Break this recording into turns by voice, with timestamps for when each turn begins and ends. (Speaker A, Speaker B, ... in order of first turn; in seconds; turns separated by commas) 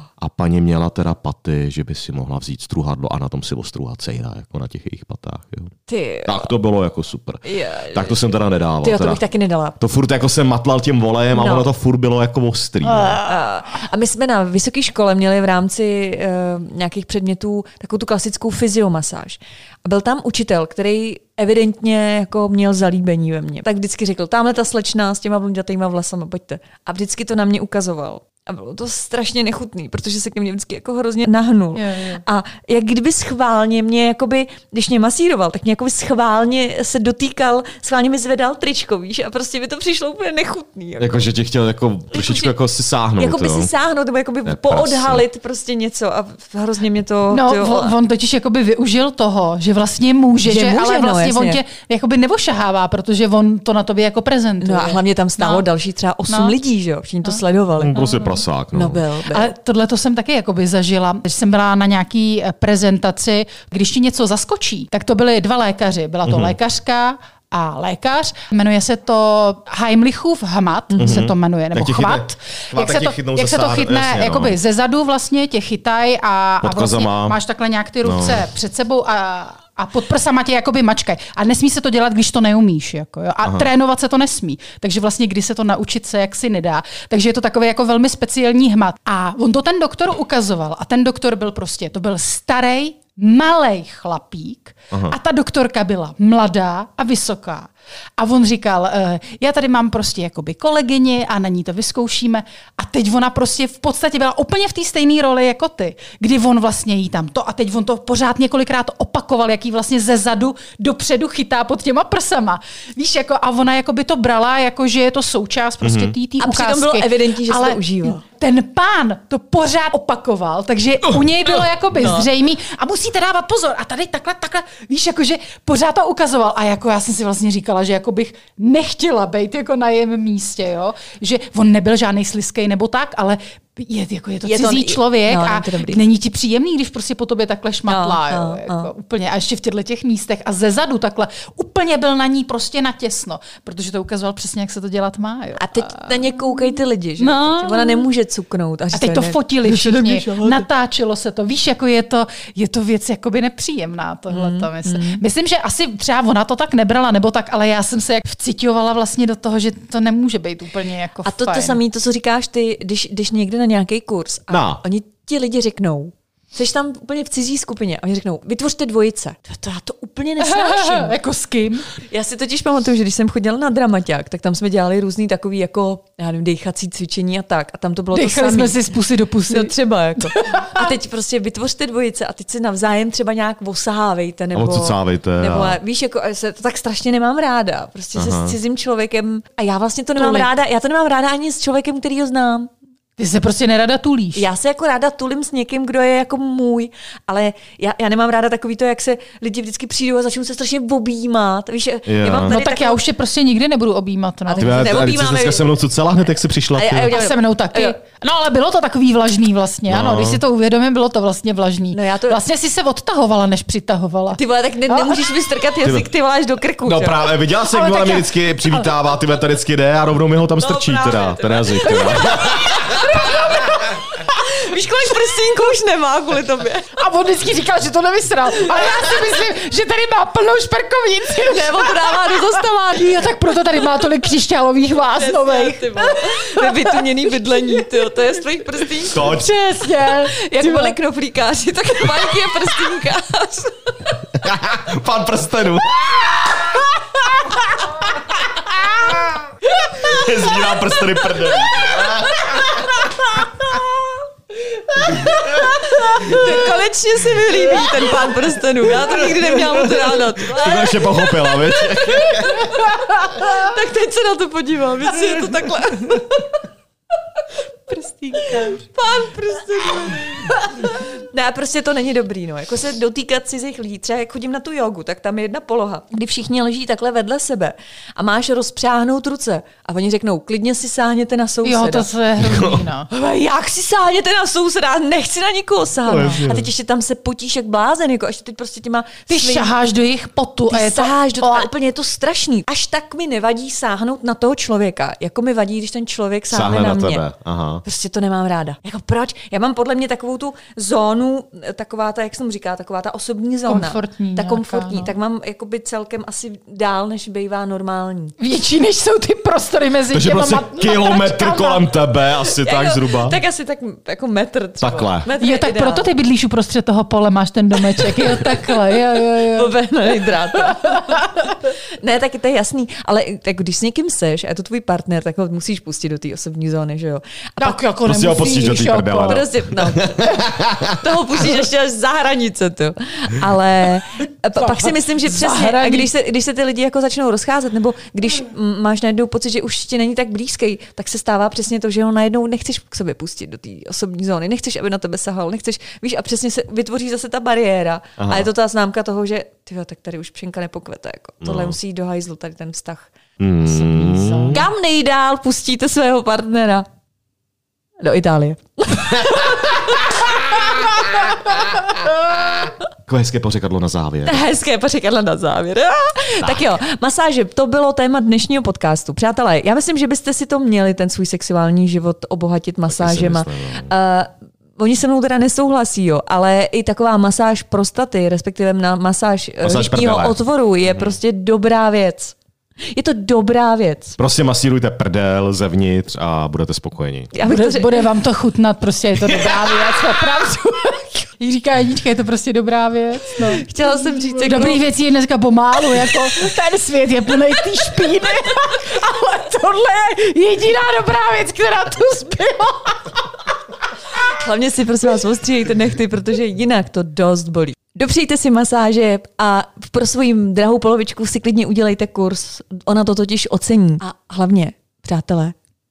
Speaker A: 0.2-5.7, Speaker B: 5.9-6.5, Speaker A: 6.2-9.2, Speaker B: 7.4-8.2, Speaker B: 8.8-9.8, Speaker A: 9.8-13.2, Speaker B: 11.3-11.7, Speaker C: 12.9-13.3, Speaker B: 13.2-41.2, Speaker C: 31.7-32.2, Speaker A: 41.0-43.7, Speaker B: 42.1-42.5, Speaker B: 43.2-47.9, Speaker A: 44.5-45.2, Speaker C: 47.3-55.6, Speaker B: 50.4-51.6, Speaker B: 54.6-58.0, Speaker C: 56.3-56.6, Speaker A: 57.8-59.0, Speaker C: 57.9-58.4, Speaker B: 58.7-59.5, Speaker C: 59.3-148.1, Speaker A: 66.2-66.5, Speaker B: 70.9-71.2, Speaker A: 71.0-74.6, Speaker A: 76.6-77.3, Speaker A: 78.0-78.4, Speaker A: 115.8-116.1, Speaker B: 116.4-118.2, Speaker B: 122.0-122.3, Speaker B: 134.4-136.0, Speaker B: 137.9-138.9, Speaker B: 145.6-150.7, Speaker C: 148.9-161.8, Speaker B: 154.3-155.2, Speaker B: 161.2-171.1, Speaker A: 164.5-164.8, Speaker C: 170.4-171.9, Speaker B: 172.1-178.8, Speaker C: 178.1-180.9, Speaker B: 179.5-192.7, Speaker A: 184.5-185.8, Speaker A: 188.2-188.6, Speaker C: 190.2-190.5, Speaker C: 193.2-194.4, Speaker B: 194.3-203.0, Speaker A: 202.1-202.5, Speaker C: 202.4-204.9, Speaker B: 204.4-205.8, Speaker A: 204.6-207.1, Speaker B: 206.7-207.9, Speaker C: 207.1-215.3, Speaker A: 209.9-210.4, Speaker B: 211.9-212.4, Speaker B: 214.3-217.3, Speaker A: 215.8-216.1, Speaker A: 216.8-223.3, Speaker C: 217.6-218.3, Speaker B: 220.6-223.6, Speaker C: 221.9-224.4, Speaker B: 224.2-226.9, Speaker C: 226.9-241.0, Speaker B: 231.4-233.2, Speaker B: 235.1-239.3, Speaker A: 239.1-239.5, Speaker B: 240.0-244.2, Speaker A: 244.3-246.8, Speaker C: 248.6-248.9, Speaker A: 250.0-252.9, Speaker C: 252.5-252.9, Speaker C: 255.0-256.6, Speaker B: 255.1-266.6, Speaker A: 255.2-255.7, Speaker A: 260.4-262.7, Speaker C: 262.7-263.5, Speaker C: 267.9-268.8, Speaker B: 268.4-282.1, Speaker C: 270.5-270.9, Speaker C: 281.6-283.1, Speaker A: 282.4-282.9, Speaker B: 283.1-289.7, Speaker A: 286.1-286.7, Speaker C: 286.2-286.4, Speaker C: 289.3-291.7, Speaker B: 290.7-297.2, Speaker A: 296.5-297.8, Speaker B: 297.8-308.3, Speaker C: 303.6-305.1, Speaker C: 308.4-311.9, Speaker A: 310.1-313.4, Speaker B: 312.6-316.1, Speaker A: 314.8-315.3, Speaker C: 315.4-319.7, Speaker B: 319.4-327.8, Speaker C: 320.5-321.4, Speaker C: 327.6-329.5, Speaker A: 328.0-331.0, Speaker B: 329.2-330.4, Speaker B: 331.0-353.1, Speaker C: 334.6-336.1, Speaker A: 348.2-348.5, Speaker A: 351.4-351.7, Speaker A: 353.4-354.6, Speaker C: 353.6-354.7, Speaker B: 354.5-356.9, Speaker B: 358.0-361.4, Speaker A: 359.1-359.8, Speaker A: 363.1-364.4, Speaker B: 364.3-382.3, Speaker A: 366.4-366.8, Speaker A: 372.9-373.9, Speaker A: 379.6-381.2, Speaker B: 382.9-384.2, Speaker A: 384.2-387.3, Speaker B: 387.3-388.1, Speaker C: 387.4-393.7, Speaker B: 393.4-394.8, Speaker C: 394.4-403.2, Speaker B: 404.2-415.5